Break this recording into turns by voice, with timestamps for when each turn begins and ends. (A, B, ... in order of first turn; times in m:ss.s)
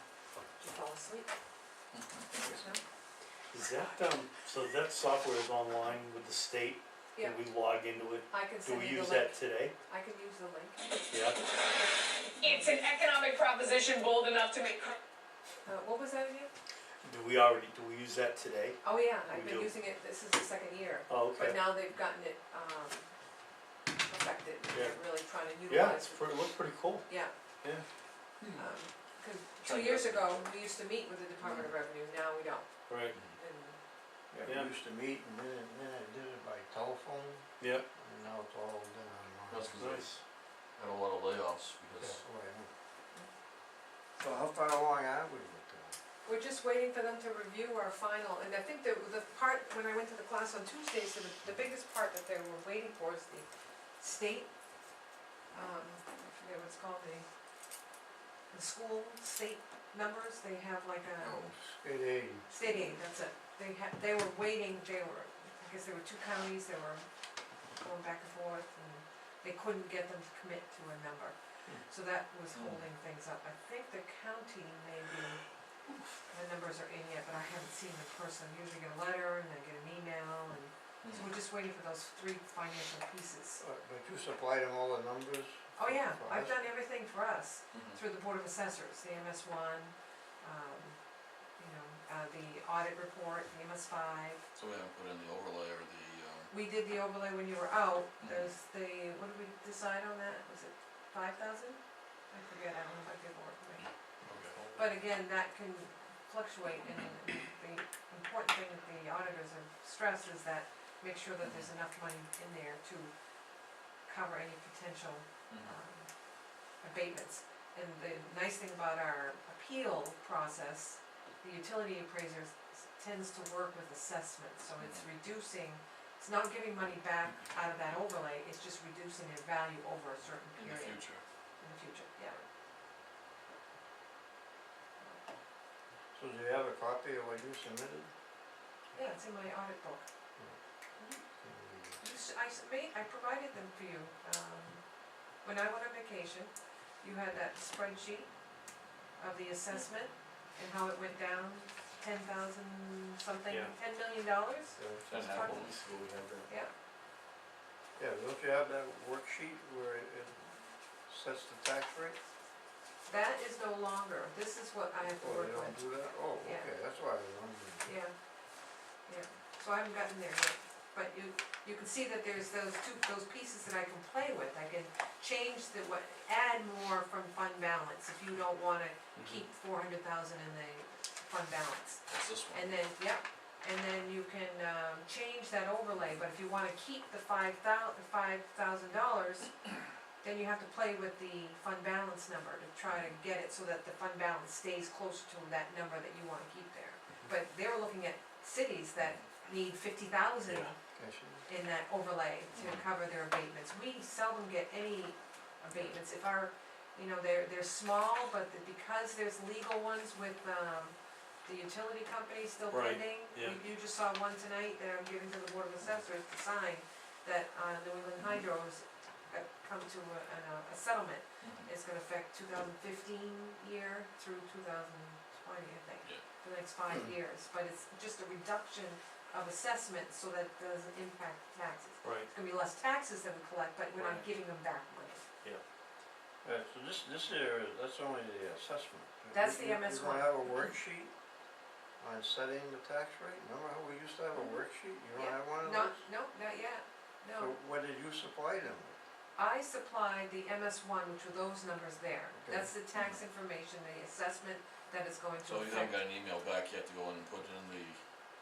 0:00.6-0:01.3 A
0:01.9-0:02.5 B
0:02.5-0:02.8 A
0:03.5-0:09.7 C
0:08.3-0:12.8 A
0:11.1-0:11.4 C
0:12.4-0:15.0 D
0:15.7-0:16.5 A
0:17.0-0:19.7 C
0:18.8-0:23.1 A
0:21.1-0:21.6 C
0:24.0-0:26.3 A
0:24.7-0:25.0 C
0:25.7-0:27.0 C
0:27.1-0:27.3 A
0:28.6-0:32.7 A
0:29.6-0:30.4 B
0:31.4-0:31.7 B
0:32.9-0:33.2 C
0:33.4-0:33.8 A
0:34.3-0:40.0 E
0:37.6-0:37.9 C
0:39.5-0:40.1 B
0:39.8-0:40.2 C
0:40.8-0:42.2 B
0:42.0-0:42.7 E
0:44.2-0:46.0 E
0:46.2-0:53.5 A
0:54.0-0:54.5 A
0:55.5-0:57.3 A
0:58.5-1:01.5 A
1:01.3-1:02.9 E
1:02.5-1:07.1 A
1:07.8-1:11.4 A
1:11.9-1:15.4 A
1:12.5-1:12.8 B
1:16.3-1:23.6 A
1:21.0-1:21.3 B
1:23.6-1:26.6 E
1:25.8-1:31.0 A
1:27.7-1:28.0 B
1:31.6-1:34.4 A
1:34.6-1:36.5 B
1:36.5-1:41.8 A
1:38.2-1:38.5 B
1:42.3-1:43.8 A
1:44.3-1:44.6 B
1:44.7-1:53.1 A
1:51.4-1:51.7 B
1:54.1-1:56.1 A
1:56.8-2:11.0 A
2:04.8-2:05.1 B
2:10.6-2:11.2 B
2:11.6-2:12.4 A
2:16.1-2:18.1 E
2:19.0-2:20.1 A
2:21.4-2:22.0 E
2:22.0-2:24.8 A
2:25.4-2:28.3 A
2:29.2-2:35.7 A
2:33.5-2:33.7 C
2:34.8-2:35.0 E
2:35.1-2:36.4 B
2:38.0-2:40.5 E
2:41.1-2:42.2 E
2:43.1-2:45.9 A
2:45.0-2:47.9 E
2:46.4-2:46.7 A
2:47.8-2:48.1 A
2:49.1-3:09.5 A
2:59.2-2:59.4 C
3:02.1-3:02.8 B
3:10.2-3:20.8 A
3:12.9-3:13.2 B
3:19.0-3:19.2 B
3:20.5-3:20.7 C
3:21.0-3:21.5 E
3:21.5-3:55.2 A
3:22.5-3:22.8 B
3:32.7-3:33.6 C
3:41.4-3:41.7 B
3:52.0-3:52.3 C
3:56.4-4:01.1 E
3:59.3-4:00.7 A
4:02.0-4:06.0 E
4:05.2-4:07.5 A
4:07.4-4:09.0 E
4:09.4-4:16.0 A
4:12.4-4:12.7 E
4:15.4-4:18.0 B